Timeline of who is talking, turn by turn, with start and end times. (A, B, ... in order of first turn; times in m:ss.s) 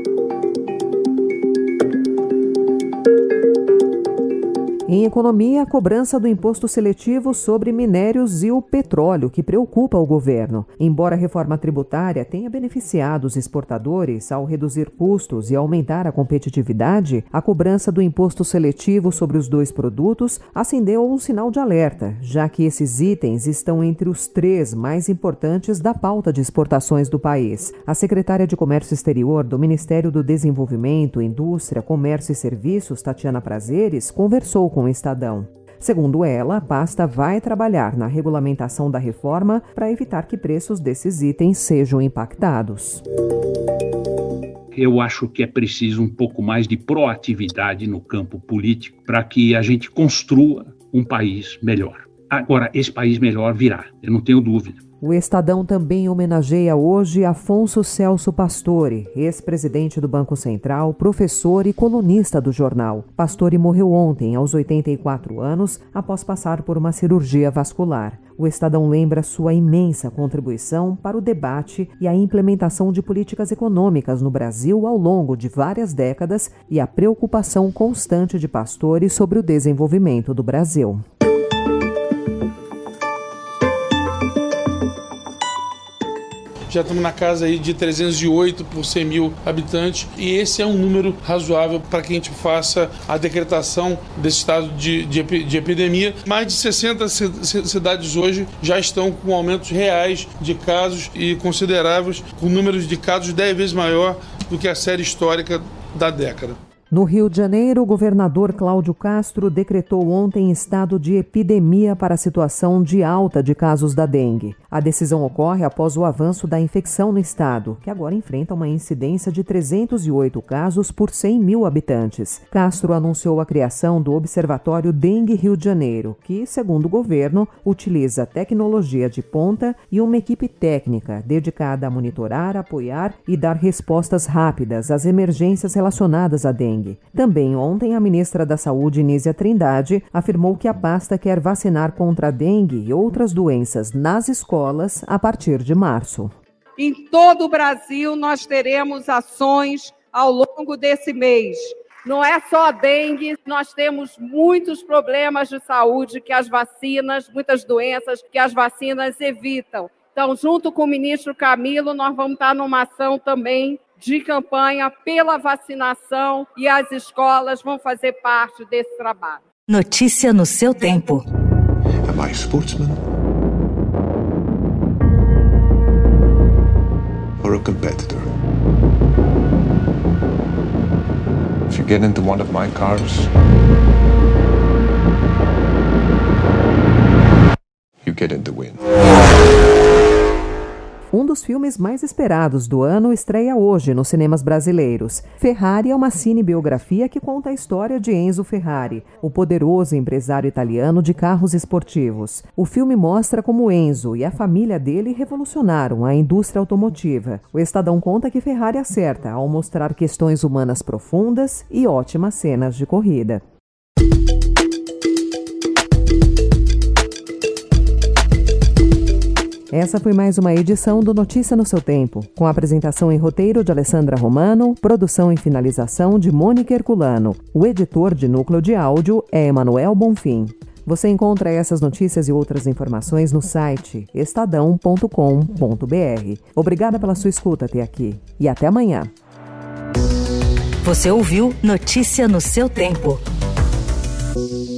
0:04.9-0:43.0 A
0:44.8-0:54.8 B
0:55.0-1:21.0 A
1:26.7-1:46.6 C
1:46.9-2:26.3 A
2:26.8-2:49.4 D
2:49.7-2:51.2 E
2:52.0-2:53.0 F
2:57.4-2:58.2 F
3:01.7-3:03.3 F
3:08.0-3:08.8 F
3:11.1-3:33.4 A
3:39.7-3:59.1 A
4:00.8-4:03.2 E